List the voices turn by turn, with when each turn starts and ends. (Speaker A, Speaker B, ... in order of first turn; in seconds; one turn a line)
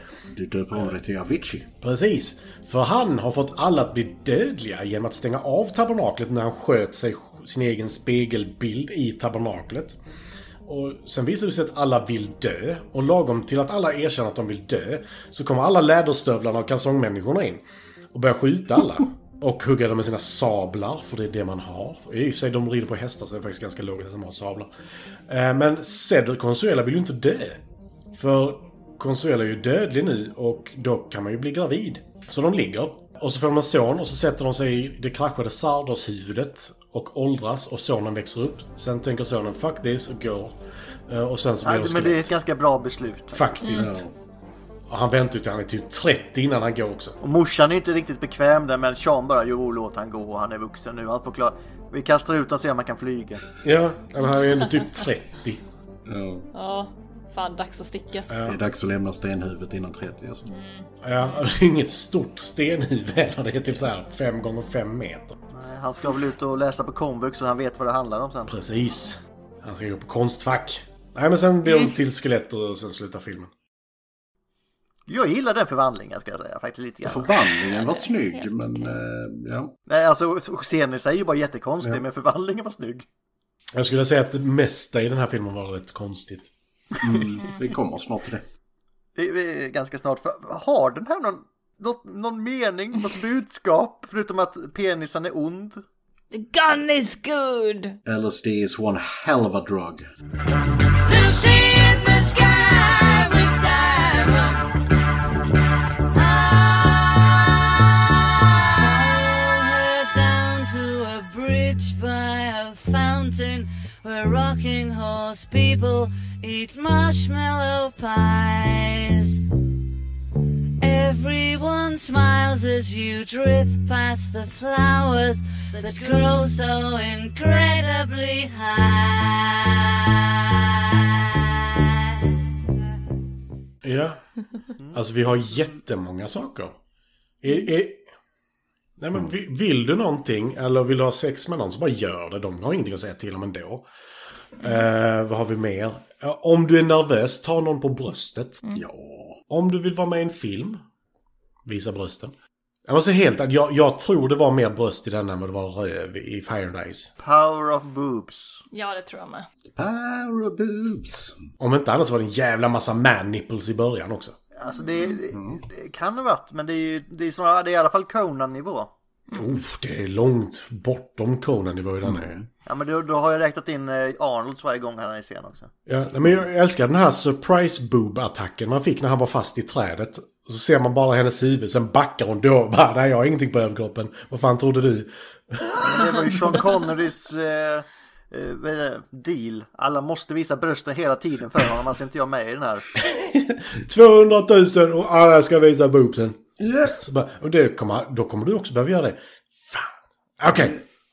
Speaker A: 0.3-1.7
Speaker B: 1.8-10.0
Speaker B: 10.7-17.6
Speaker B: 18.1-24.7
Speaker B: 25.3-27.6
Speaker B: 28.1-40.5
Speaker B: 41.1-42.3
Speaker C: 41.6-43.5
Speaker B: 43.3-44.1
Speaker A: 43.8-44.1
Speaker B: 44.9-47.2
Speaker C: 47.2-53.4
Speaker B: 53.6-55.6
Speaker A: 56.1-56.5
Speaker D: 56.5-58.3
Speaker B: 58.3-58.6
Speaker A: 58.4-60.5
Speaker D: 60.5-61.5
Speaker B: 61.0-65.3
Speaker C: 65.5-68.5
Speaker B: 68.5-73.5
Speaker C: 75.1-77.4
Speaker A: 77.0-79.7
Speaker D: 77.7-78.9
Speaker C: 79.9-83.0
Speaker B: 83.7-86.5
Speaker A: 87.0-88.4
Speaker C: 89.2-95.8
Speaker D: 96.3-98.0
Speaker A: 98.0-100.0
Speaker E: 101.0-104.8
Speaker E: 106.1-119.4
Speaker E: 120.8-131.9
Speaker B: 133.8-134.2
Speaker B: 134.9-136.7
Speaker B: 137.4-138.0
Speaker B: 139.0-143.8
Speaker B: 144.6-148.6
Speaker A: 148.7-149.4
Speaker B: 149.5-150.8
Speaker B: 151.7-152.3
Speaker B: 152.9-157.1
Speaker C: 157.2-158.6
Speaker D: 158.7-159.5
Speaker A: 159.7-161.5
Speaker B: 161.6-164.3
Speaker C: 164.6-168.9
Speaker D: 164.7-165.2
Speaker A: 165.3-165.6
Speaker B: 169.3-172.4
Speaker A: 172.0-172.5
Speaker C: 172.7-175.7
Speaker B: 175.9-186.6
Speaker C: 185.8-192.8
Speaker B: 193.0-196.4
Speaker A: 196.6-196.9
Speaker B: 196.9-200.8
Speaker A: 200.5-200.8